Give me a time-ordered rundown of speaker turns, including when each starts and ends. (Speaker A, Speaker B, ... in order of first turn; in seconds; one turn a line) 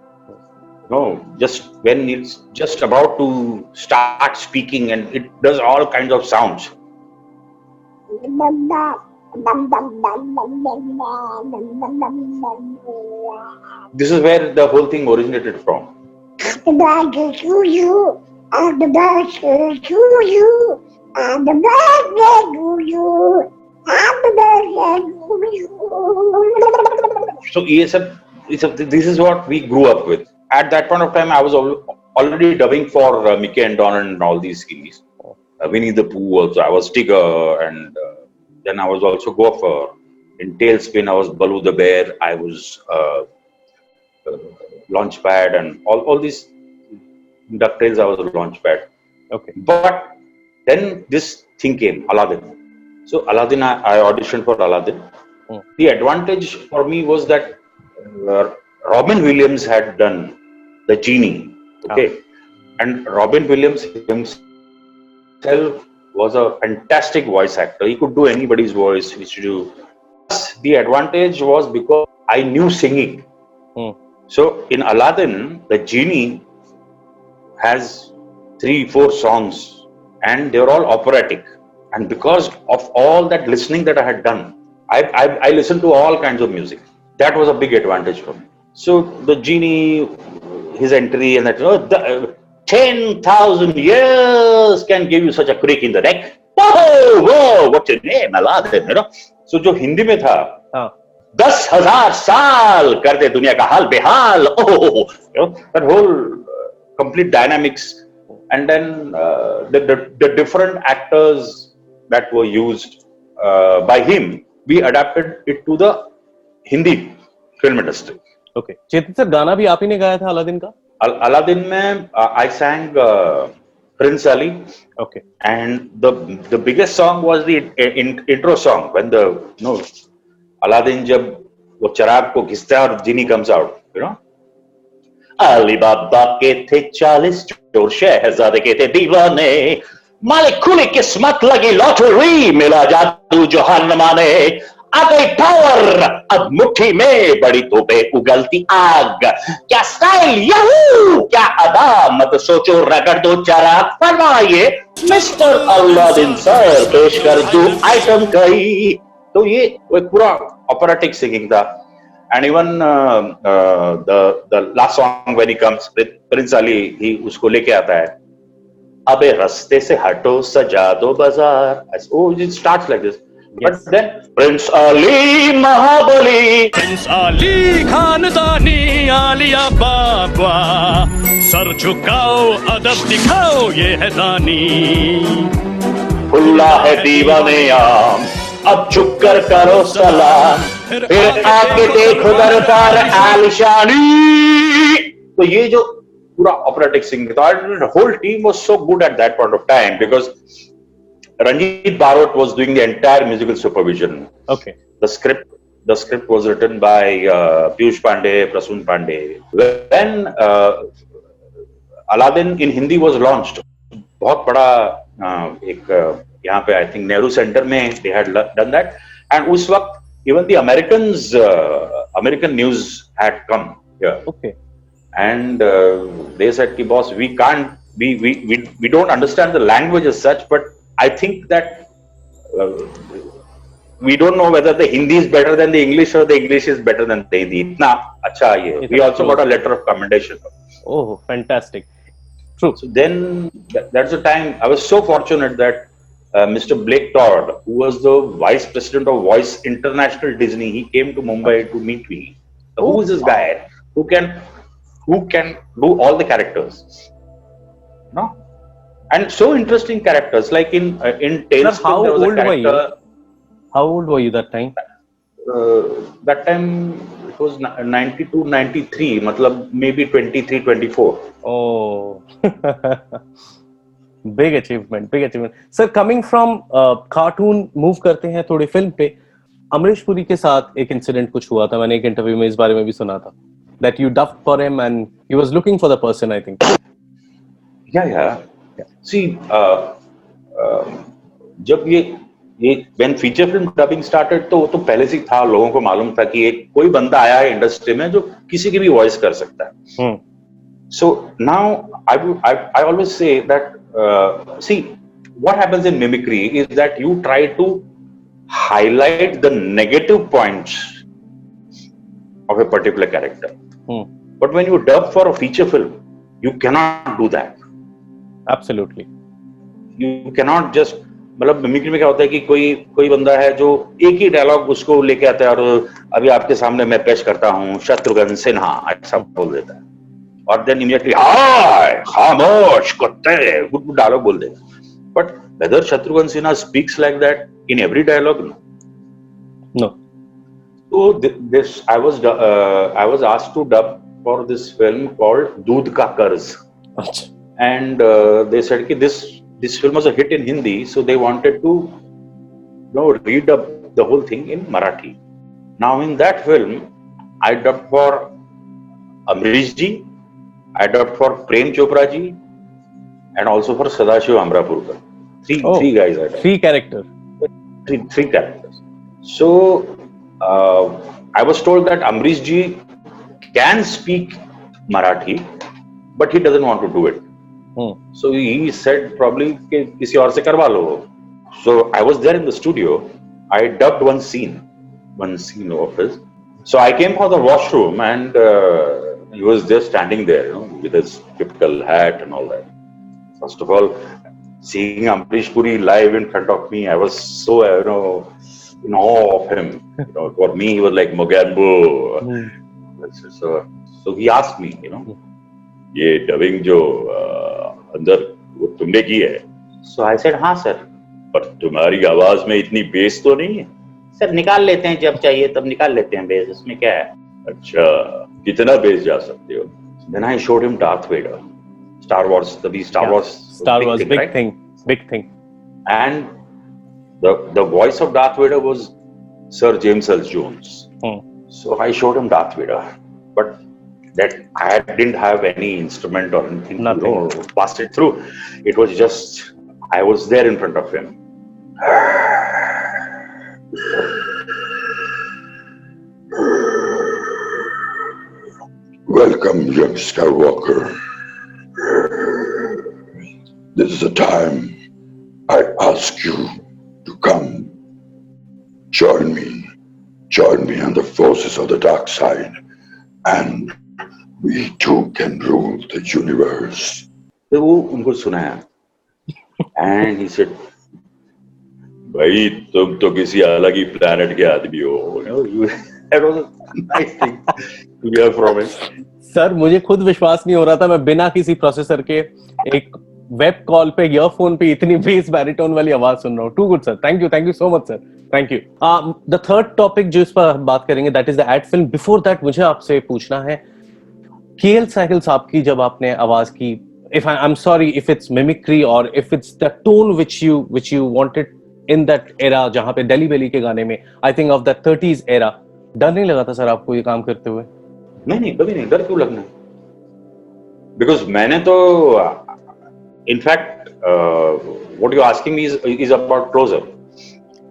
Speaker A: 0.9-6.7
Speaker B: 8.1-13.4
Speaker A: 13.9-15.9
Speaker B: 16.4-27.3
Speaker A: 27.5-35.0
Speaker A: 35.6-38.1
Speaker A: 38.6-43.3
Speaker A: 44.2-46.5
Speaker A: 47.5-48.9
Speaker A: 49.5-50.1
Speaker A: 50.7-52.5
Speaker A: 53.1-55.0
Speaker A: 55.8-60.4
Speaker A: 60.9-62.2
Speaker A: 62.8-64.4
Speaker A: 65.4-69.7
Speaker A: 70.3-73.2
Speaker A: 74.3-76.4
Speaker A: 77.6-100.6
Speaker A: 101.3-116.1
Speaker A: 116.7-118.2
Speaker C: 118.5-120.7
Speaker A: 121.0-124.7
Speaker A: 125.4-129.9
Speaker A: 130.6-134.2
Speaker A: 135.4-161.8
Speaker D: 155.1-158.0
Speaker A: 162.3-168.2
Speaker A: 169.1-176.7
Speaker D: 176.7-185.5
Speaker A: 186.3-200.3
Speaker D: 186.6-187.9
Speaker D: 188.9-193.5
Speaker A: 201.4-204.3
Speaker C: 204.5-204.7
Speaker A: 205.0-210.9
Speaker A: 212.1-213.6
Speaker A: 214.2-224.2
Speaker C: 224.3-224.5
Speaker A: 225.1-231.9
Speaker A: 232.5-233.3
Speaker A: 234.0-240.5
Speaker C: 238.8-239.4
Speaker C: 240.9-241.9
Speaker A: 242.8-254.4
Speaker A: 255.1-256.9
Speaker A: 259.1-262.9
Speaker C: 261.6-262.8
Speaker C: 263.7-264.7
Speaker A: 265.4-271.2
Speaker C: 271.4-273.2
Speaker C: 274.3-279.1
Speaker C: 279.7-286.6
Speaker A: 287.9-288.4
Speaker A: 289.0-289.9
Speaker A: 290.6-291.1
Speaker A: 291.6-299.8
Speaker A: 300.9-307.8
Speaker A: 308.5-311.0
Speaker A: 312.5-313.5
Speaker A: 314.4-317.6
Speaker C: 318.5-319.1
Speaker A: 320.0-329.8
Speaker A: 330.5-334.6
Speaker A: 335.1-338.6
Speaker A: 340.9-346.6
Speaker C: 347.0-347.3
Speaker A: 347.6-351.9
Speaker A: 352.9-355.2
Speaker A: 355.8-356.9
Speaker A: 357.4-358.3
Speaker A: 359.3-360.1
Speaker A: 360.8-362.4
Speaker A: 363.4-366.4
Speaker C: 365.6-367.0
Speaker A: 367.9-368.7
Speaker A: 369.2-372.8
Speaker A: 373.5-375.4
Speaker A: 376.1-377.2
Speaker A: 378.1-384.6
Speaker A: 385.2-392.7
Speaker A: 393.4-394.1
Speaker A: 394.6-398.3
Speaker A: 398.8-402.4
Speaker C: 402.2-402.5
Speaker A: 403.0-405.1
Speaker A: 405.9-421.4
Speaker A: 422.0-424.3
Speaker C: 423.0-425.3
Speaker A: 425.9-426.3
Speaker A: 427.2-428.9
Speaker A: 429.5-430.9
Speaker A: 431.5-433.6
Speaker A: 434.1-441.1
Speaker C: 436.8-437.2
Speaker A: 441.9-442.7
Speaker E: 446.3-447.6
Speaker E: 449.1-451.0
Speaker E: 451.8-452.8
Speaker E: 453.7-454.8
Speaker E: 455.5-457.7
Speaker E: 458.9-459.7
Speaker E: 460.3-462.6
Speaker E: 463.2-463.8
Speaker E: 464.4-467.1
Speaker A: 467.5-468.6
Speaker A: 469.8-470.6
Speaker A: 472.1-478.8
Speaker C: 479.3-493.6
Speaker C: 494.6-507.7
Speaker A: 508.2-509.5
Speaker A: 511.0-512.4
Speaker A: 513.3-516.9